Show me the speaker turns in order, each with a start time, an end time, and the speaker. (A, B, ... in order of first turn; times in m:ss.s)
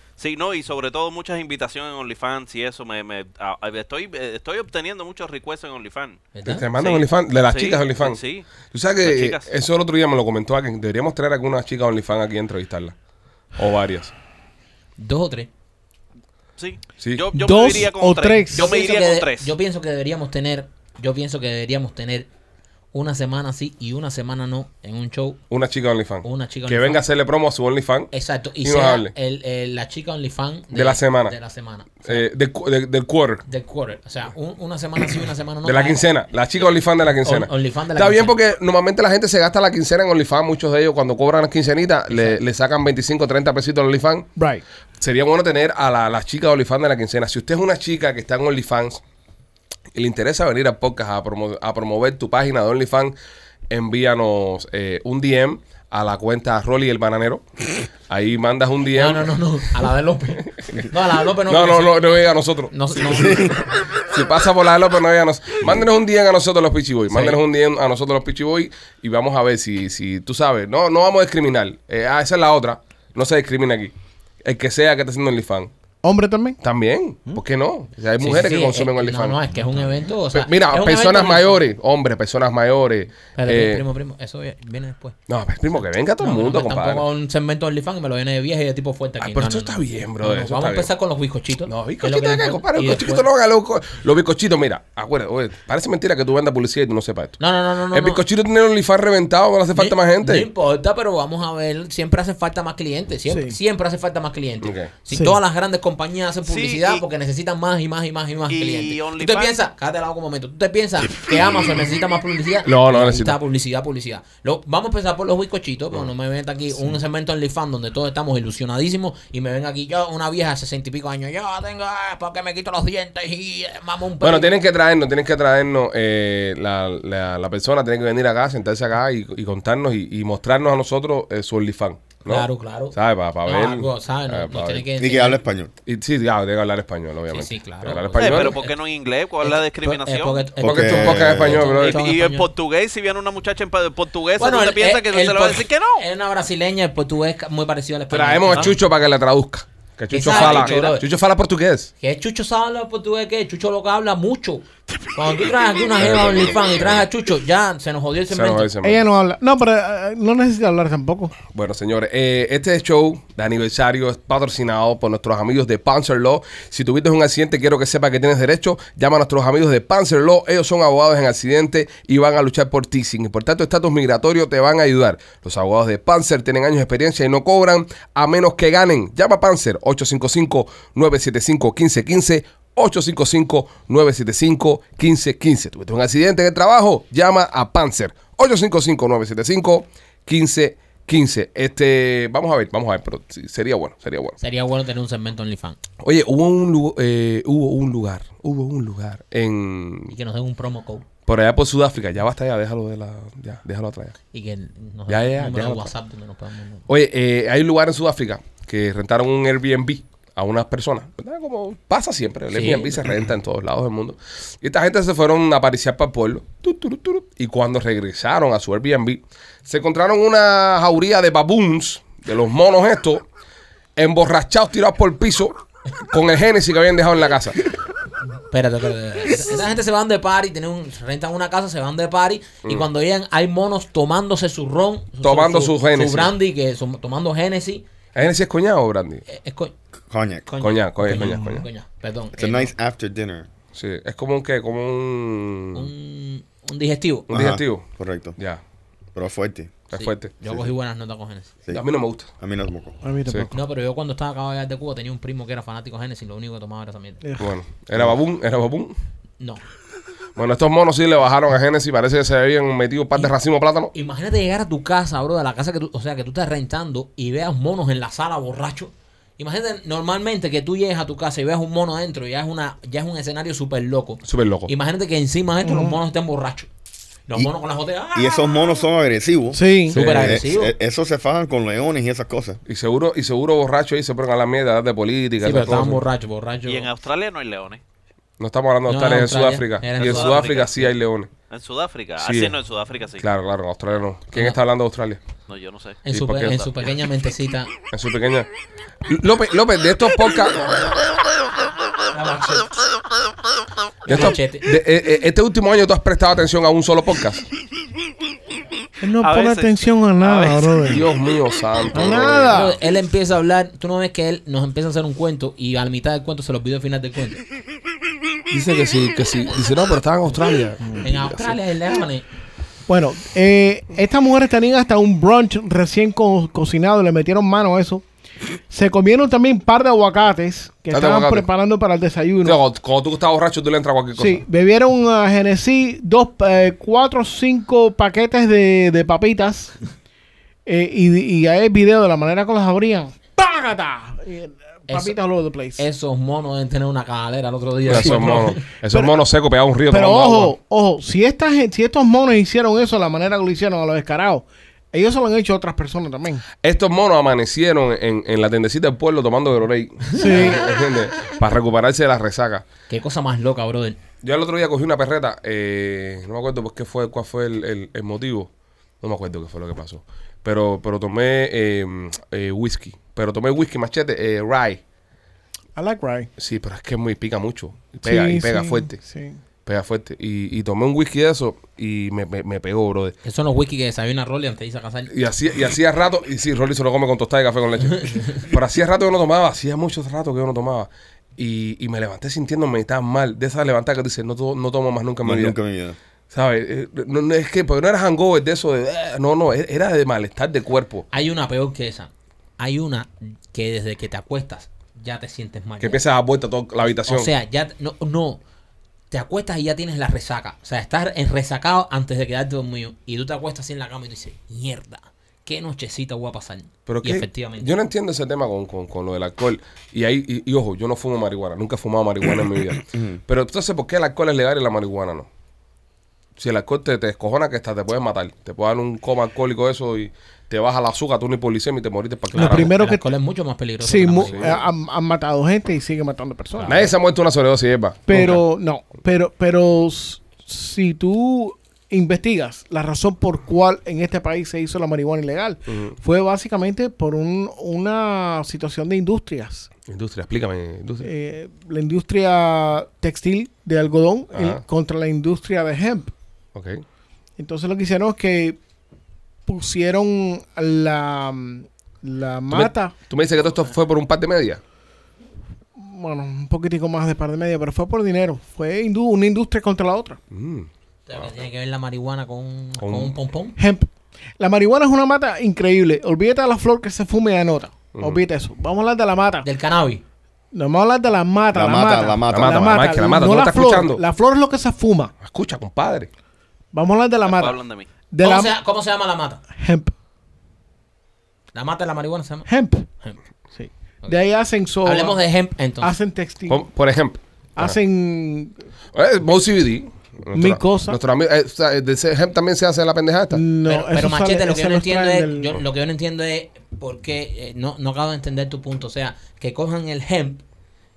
0:00.2-0:09.5 A
0:06.4-0:06.6 B
0:06.4-0:13.0 C
0:13.6-0:14.1 C
0:15.0-0:15.5 B
0:16.6-0:19.5 A
0:17.0-0:17.3 C
0:17.3-0:18.7 D
0:18.5-0:22.3 B
0:22.9-0:25.4 B
0:25.5-0:28.1 C
0:26.2-0:27.0 B
0:28.1-0:32.2 B
0:28.6-0:29.1 C
0:30.7-0:31.4 C
0:32.0-0:33.4 C
0:33.5-0:36.0 B
0:35.6-0:44.3 C
0:37.1-0:38.4 B
0:42.1-0:42.4 B
0:44.4-0:44.6 D
0:45.0-0:49.0 C
0:49.9-0:53.2 C
0:53.7-0:59.8 C
0:59.0-1:02.0 B
1:01.5-1:03.4 C
1:02.7-1:03.5 B
1:03.2-1:03.6 E
1:03.9-1:15.7 C
1:07.1-1:07.4 B
1:16.0-1:16.6 D
1:16.6-1:19.4 C
1:18.2-1:21.6 B
1:20.3-1:23.8 C
1:23.4-1:25.2 B
1:25.3-1:27.0 C
1:26.2-1:33.3 B
1:29.2-1:30.9 C
1:31.7-1:37.4 C
1:37.4-1:38.2 B
1:37.9-1:40.5 C
1:39.7-2:04.6 B
1:43.3-1:43.6 D
1:44.6-1:44.9 C
1:45.1-1:45.4 D
1:46.4-1:47.0 A
1:48.5-1:49.6 A
1:52.6-1:53.4 C
2:04.2-2:14.9 C
2:12.3-2:15.4 B
2:15.0-2:15.7 E
2:15.9-2:18.6 C
2:17.3-2:18.8 B
2:18.2-2:20.5 A
2:19.4-2:22.5 B
2:20.6-2:22.0 C
2:20.6-2:21.6 E
2:21.6-2:26.0 A
2:24.4-2:28.8 B
2:28.1-2:31.9 C
2:30.1-2:31.1 B
2:30.3-2:30.8 A
2:32.0-2:38.7 B
2:36.0-2:37.1 C
2:38.3-2:39.0 C
2:38.8-2:41.4 D
2:41.4-3:14.4 C
3:14.4-3:15.8 B
3:16.0-3:20.1 C
3:20.1-3:21.0 B
3:21.2-3:24.2 C
3:24.3-3:26.8 B
3:25.1-3:25.9 C
3:26.9-3:43.3 C
3:32.5-3:33.1 B
3:44.0-3:45.6 C
3:46.1-3:47.6 C
3:48.5-3:57.9 B
3:55.2-3:56.3 C
3:58.2-3:59.2 C
3:59.3-3:59.7 B
4:00.1-4:00.4 E
4:00.5-4:02.7 B
4:00.6-4:01.7 C
4:02.3-4:03.5 E
4:03.7-4:05.9 C
4:05.7-4:07.3 B
4:07.3-4:08.6 C
4:07.3-4:08.4 E
4:09.2-4:09.8 E
4:09.9-4:10.3 C
4:09.9-4:11.5 B
4:11.7-4:12.3 C
4:12.4-4:13.0 E
4:13.0-4:13.6 D
4:13.5-4:17.2 B
4:17.4-4:19.0 C
4:20.4-4:23.9 C
4:23.9-4:36.7 B
4:34.2-4:34.7 C
4:35.6-4:36.0 D
4:37.3-4:38.8 B
4:38.1-4:42.6 E
4:39.5-4:40.0 D
4:39.9-4:40.7 B
4:39.9-4:40.4 C
4:42.7-4:46.0 C
4:45.4-4:46.9 B
4:46.7-4:47.8 A
4:48.4-4:51.3 C
4:48.9-4:50.9 B
4:50.0-4:50.8 A
4:51.5-4:53.2 A
4:52.2-4:52.6 C
4:53.2-4:55.2 C
4:54.3-4:54.6 B
4:55.5-4:56.0 A
4:56.0-4:57.7 B
4:56.1-4:56.9 C
4:57.9-4:58.5 C
4:59.0-5:01.0 C
5:02.1-5:02.8 B
5:04.0-5:04.7 B
5:04.1-5:07.4 C
5:09.0-5:11.1 D
5:09.2-5:11.0 A
5:10.8-5:12.7 C
5:11.9-5:12.8 D
5:12.5-5:17.4 B
5:18.5-5:21.6 C
5:21.0-5:22.3 B
5:22.9-5:28.0 D
5:28.7-5:32.6 D
5:30.9-5:31.5 C
5:32.4-5:34.4 C
5:34.2-5:39.8 D
5:40.7-5:45.8 D
5:44.9-5:45.2 B
5:45.8-5:48.6 B
5:47.9-5:50.6 C
5:48.9-5:49.2 D
5:49.9-5:56.4 D
5:56.6-6:02.7 C
6:00.1-6:00.6 D
6:00.3-6:00.6 B
6:02.9-6:04.0 B
6:04.2-6:08.5 C
6:09.0-6:14.8 C
6:15.8-6:16.3 D
6:16.4-6:19.0 C
6:18.0-6:19.4 D
6:19.6-6:23.2 C
6:23.2-6:25.1 B
6:25.1-6:35.6 C
6:28.0-6:28.3 B
6:35.2-6:36.0 E
6:36.3-6:41.1 C
6:41.1-6:46.0 B
6:45.8-6:47.3 C
6:46.8-6:48.4 B
6:49.1-6:57.7 B
6:56.9-7:05.3 C
7:06.4-7:12.8 C
7:12.3-7:14.6 B
7:12.4-7:13.0 D
7:13.8-7:16.9 D
7:14.2-7:14.6 C
7:16.6-7:16.9 B
7:16.6-7:18.4 C
7:18.1-7:29.7 D
7:25.7-7:26.0 C
7:29.9-7:31.1 C
7:31.0-7:36.1 D
7:34.3-7:34.6 C
7:36.6-7:36.8 C
7:37.4-7:38.6 D
7:39.5-7:43.0 D
7:42.5-7:44.6 C
7:45.8-7:50.2 D
7:50.3-7:51.3 C
7:51.1-7:53.6 B
7:52.8-7:53.2 C
7:53.6-7:59.5 D
7:57.9-7:58.2 C
7:59.4-8:00.0 B
8:00.5-8:05.2 D
8:01.5-8:02.7 E
8:02.3-8:04.0 C
8:05.2-8:06.1 C
8:06.7-8:07.6 D
8:07.2-8:07.9 A
8:08.1-8:08.5 D
8:08.2-8:09.4 B
8:09.5-8:09.9 D
8:11.5-8:12.5 B
8:12.5-8:12.9 D
8:13.6-8:15.2 D
8:14.8-8:16.0 B
8:15.8-8:16.6 D
8:16.5-8:17.8 C
8:17.6-8:18.6 D
8:18.9-8:23.4 C
8:20.3-8:21.0 D
8:23.3-8:25.5 D
8:23.6-8:30.4 B